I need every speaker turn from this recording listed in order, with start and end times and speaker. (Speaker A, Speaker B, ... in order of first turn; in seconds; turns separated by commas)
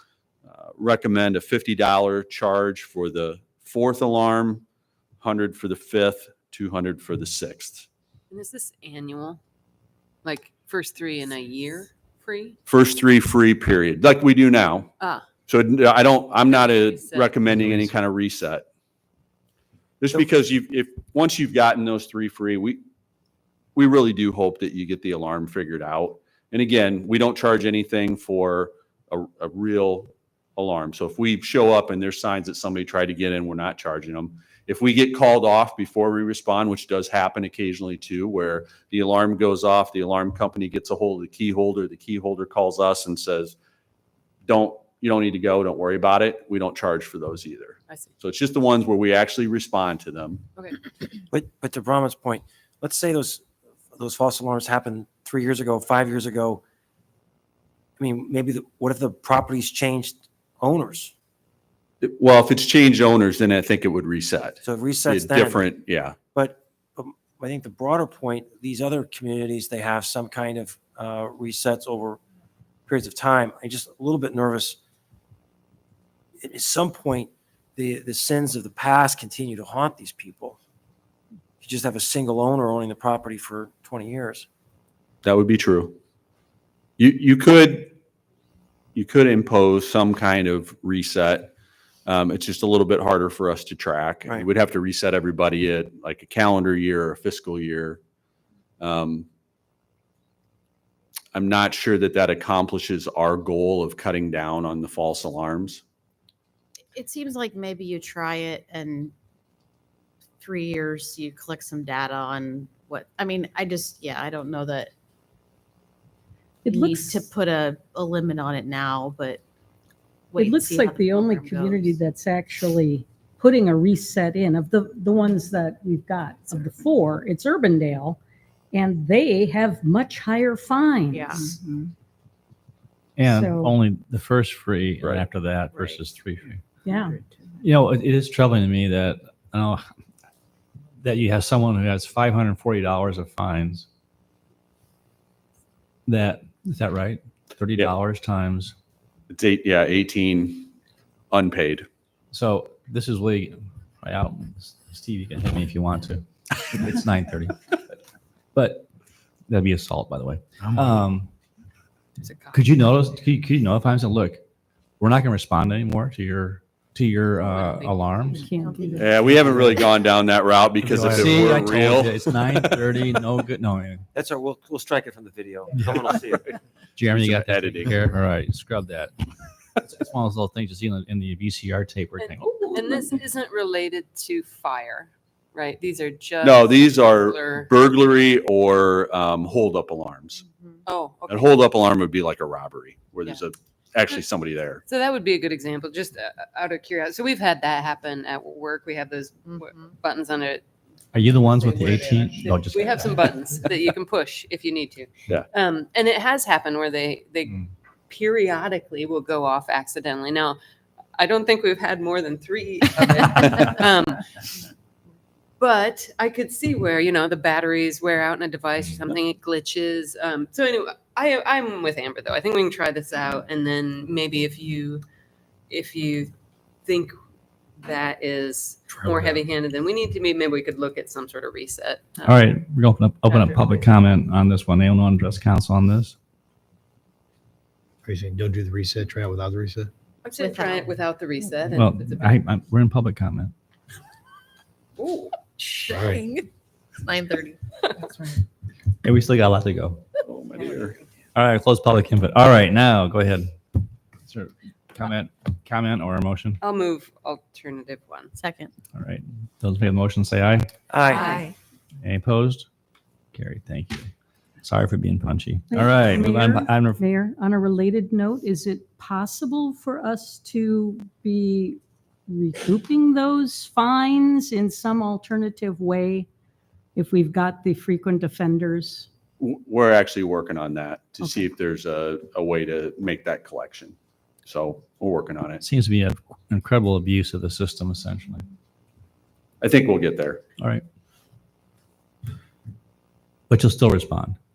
Speaker A: 0.5-4.6, Speaker A: 5.2-7.9, Speaker B: 8.3-9.4, Speaker B: 10.2-12.6, Speaker A: 12.7-14.9, Speaker B: 15.0-15.2, Speaker A: 15.5-18.6, Speaker B: 16.5-17.4, Speaker A: 20.0-22.8, Speaker A: 23.7-43.5, Speaker A: 44.5-50.4, Speaker C: 51.3-56.6, Speaker C: 58.0-61.1, Speaker A: 62.0-66.2, Speaker C: 64.6-65.7, Speaker C: 66.3-72.2, Speaker C: 72.9-74.8, Speaker C: 76.4-80.6, Speaker C: 81.6-84.5, Speaker A: 85.2-86.0, Speaker A: 87.0-87.9, Speaker A: 88.9-91.5, Speaker A: 92.0-98.0, Speaker A: 98.8-99.3, Speaker A: 101.3-105.8, Speaker D: 106.9-109.1, Speaker D: 110.4-114.9, Speaker E: 116.6-117.3, Speaker D: 116.7-119.4, Speaker D: 120.3-122.0, Speaker E: 120.3-128.2, Speaker E: 128.7-131.6, Speaker D: 131.1-131.5, Speaker F: 133.2-136.6, Speaker E: 133.2-133.7, Speaker E: 136.8-137.2, Speaker F: 137.6-139.8, Speaker F: 141.0-143.8, Speaker F: 146.1-148.7, Speaker A: 149.3-150.7, Speaker A: 151.3-151.9, Speaker F: 152.3-157.5, Speaker F: 158.5-158.9, Speaker F: 159.5-161.3, Speaker B: 162.2-162.6, Speaker F: 162.5-164.4, Speaker F: 165.0-168.5, Speaker B: 167.4-168.2, Speaker E: 168.3-169.2, Speaker D: 168.6-169.4, Speaker A: 168.9-172.1, Speaker F: 169.5-169.8, Speaker F: 170.8-174.1, Speaker C: 174.1-176.4, Speaker F: 176.9-179.1, Speaker A: 177.1-178.1, Speaker F: 179.8-182.7, Speaker B: 182.2-187.7, Speaker A: 186.4-190.4, Speaker B: 190.8-191.6, Speaker A: 191.3-194.8, Speaker B: 194.8-200.6, Speaker F: 201.1-203.2, Speaker B: 201.5-210.6, Speaker B: 211.2-214.2, Speaker B: 215.6-225.0, Speaker B: 225.7-226.3, Speaker B: 226.8-227.1, Speaker B: 227.8-232.2, Speaker G: 228.9-229.4, Speaker F: 232.2-236.1, Speaker G: 238.0-239.9, Speaker B: 240.2-242.4, Speaker D: 240.4-240.9, Speaker F: 241.7-243.5, Speaker B: 245.0-245.3, Speaker G: 245.9-246.2, Speaker D: 246.0-246.2, Speaker B: 248.0-248.3, Speaker F: 249.0-250.0, Speaker A: 250.2-251.0, Speaker F: 251.3-253.5, Speaker F: 254.3-256.6, Speaker B: 256.6-258.3, Speaker D: 258.4-258.7, Speaker F: 258.9-260.7, Speaker C: 260.9-261.4, Speaker B: 261.1-261.4, Speaker F: 262.0-262.6, Speaker F: 263.3-264.1, Speaker F: 264.6-267.0, Speaker E: 265.7-276.3, Speaker E: 276.9-279.1, Speaker A: 279.4-285.6, Speaker F: 285.6-288.4, Speaker A: 289.6-290.4, Speaker F: 290.6-290.8, Speaker F: 293.5-294.4